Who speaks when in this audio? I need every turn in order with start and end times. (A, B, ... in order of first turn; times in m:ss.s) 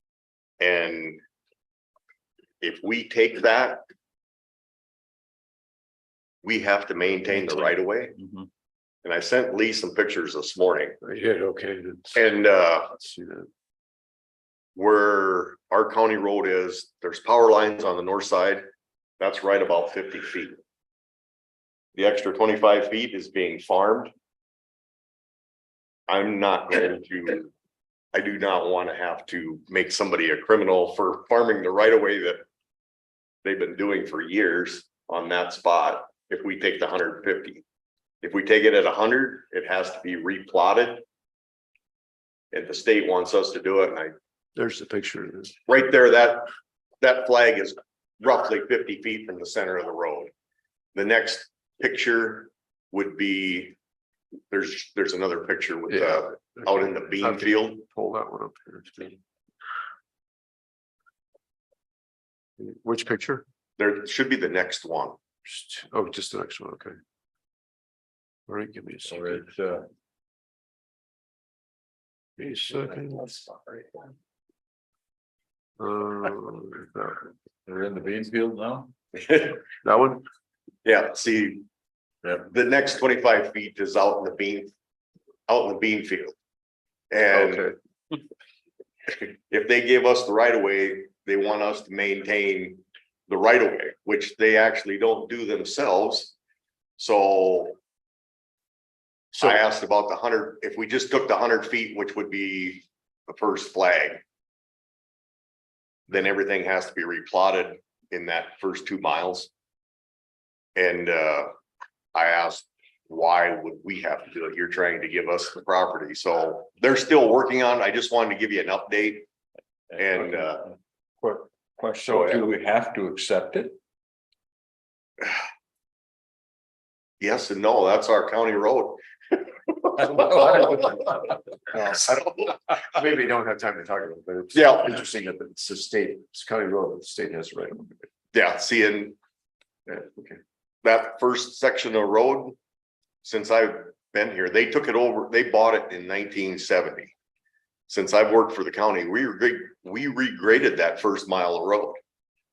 0:00.6-0:01.2 A
0:02.6-0:03.8 A
0:06.4-0:08.2 A
0:09.0-0:11.0 A
0:11.0-0:12.3 B
0:12.1-0:12.9 A
0:12.9-0:13.5 B
0:14.8-0:18.6 A
0:19.2-0:20.6 A
0:21.9-0:24.1 A
0:26.1-0:27.5 A
0:28.1-0:32.4 A
0:33.4-0:37.6 A
0:38.2-0:41.0 A
0:42.5-0:44.1 A
0:44.6-0:45.5 B
0:45.7-0:46.5 A
0:47.0-0:50.3 A
0:50.9-0:53.7 A
0:54.5-0:57.8 A
0:55.9-0:59.2 B
1:02.6-1:03.4 B
1:03.8-1:05.2 A
1:05.4-1:07.0 B
1:08.5-1:09.4 B
1:09.0-1:09.9 C
1:12.4-1:14.0 B
1:15.8-1:17.3 B
1:17.6-1:18.9 C
1:19.2-1:19.6 A
1:19.8-1:20.2 B
1:20.8-1:21.6 A
1:22.5-1:24.7 A
1:25.5-1:26.3 A
1:27.1-1:27.7 A
1:27.3-1:27.7 B
1:29.2-1:36.3 A
1:37.0-1:37.8 A
1:39.3-1:44.2 A
1:46.1-1:49.5 A
1:50.8-1:51.5 A
1:52.1-1:59.2 A
2:00.0-2:00.7 A
2:00.0-2:00.5 C
2:01.2-2:03.8 C
2:02.1-2:02.4 A
2:07.2-2:10.6 A
2:10.0-2:10.6 C
2:10.2-2:11.0 B
2:11.7-2:18.0 B
2:14.5-2:15.0 A
2:18.3-2:19.2 A
2:19.9-2:20.4 B
2:20.8-2:22.6 A
2:23.2-2:27.1 A
2:27.9-2:32.0 A